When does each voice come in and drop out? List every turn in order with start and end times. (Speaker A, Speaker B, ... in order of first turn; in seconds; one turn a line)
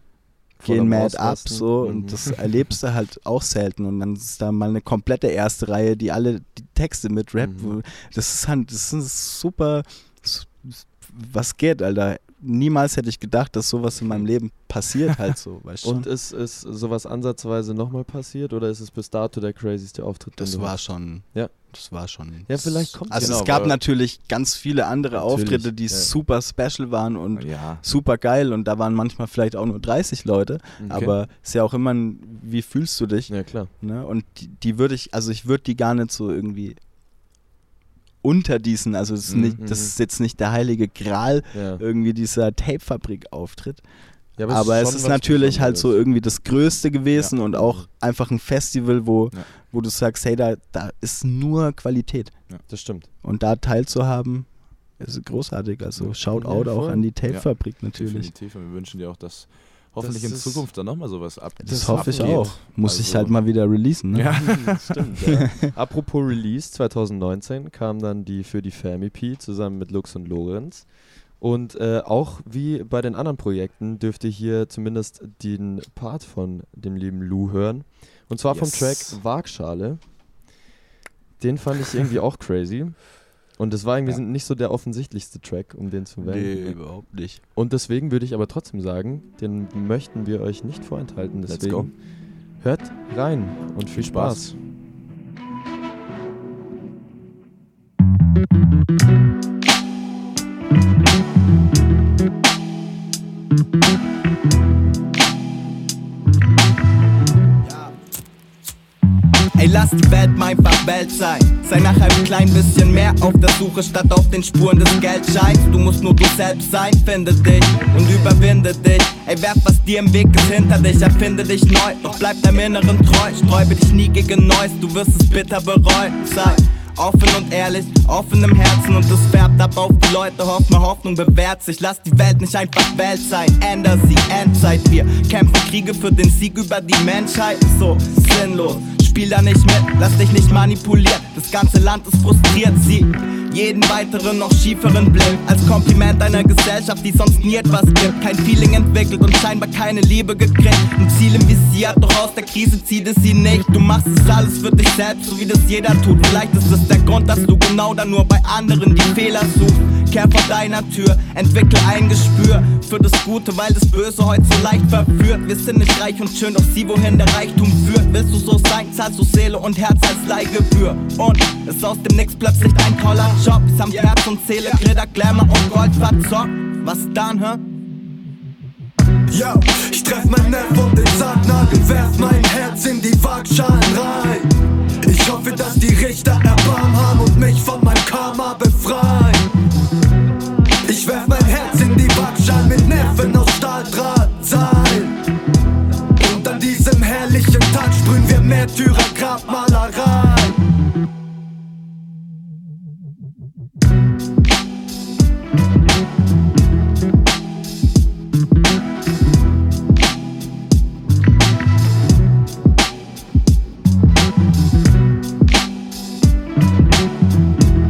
Speaker A: 0.6-2.5
Speaker B: 0.6-16.1
Speaker A: 7.4-7.8
Speaker A: 15.8-21.5
Speaker B: 20.4-36.8
Speaker A: 22.4-23.8
Speaker C: 23.1-23.8
Speaker A: 25.1-26.1
Speaker C: 27.4-27.8
Speaker A: 30.8-31.1
Speaker A: 33.3-33.7
Speaker B: 38.2-43.8
Speaker C: 39.3-39.6
Speaker A: 39.6-39.9
Speaker A: 41.5-41.8
Speaker A: 44.4-46.0
Speaker B: 44.4-52.5
Speaker A: 47.5-47.9
Speaker A: 52.7-53.1
Speaker B: 53.2-58.3
Speaker A: 56.3-57.0
Speaker C: 57.3-63.4
Speaker A: 60.0-60.7
Speaker B: 61.6-64.7
Speaker A: 61.7-62.6
Speaker C: 64.1-65.2
Speaker A: 64.4-80.1
Speaker B: 78.5-79.0
Speaker C: 78.5-79.1
Speaker A: 81.4-86.8
Speaker B: 86.2-87.4
Speaker A: 87.5-94.5
Speaker C: 91.5-91.9
Speaker C: 93.9-94.6
Speaker D: 107.7-107.9
Speaker D: 109.6-177.6
Speaker E: 179.3-184.5
Speaker E: 185.0-189.5
Speaker E: 190.8-195.2
Speaker E: 196.2-200.6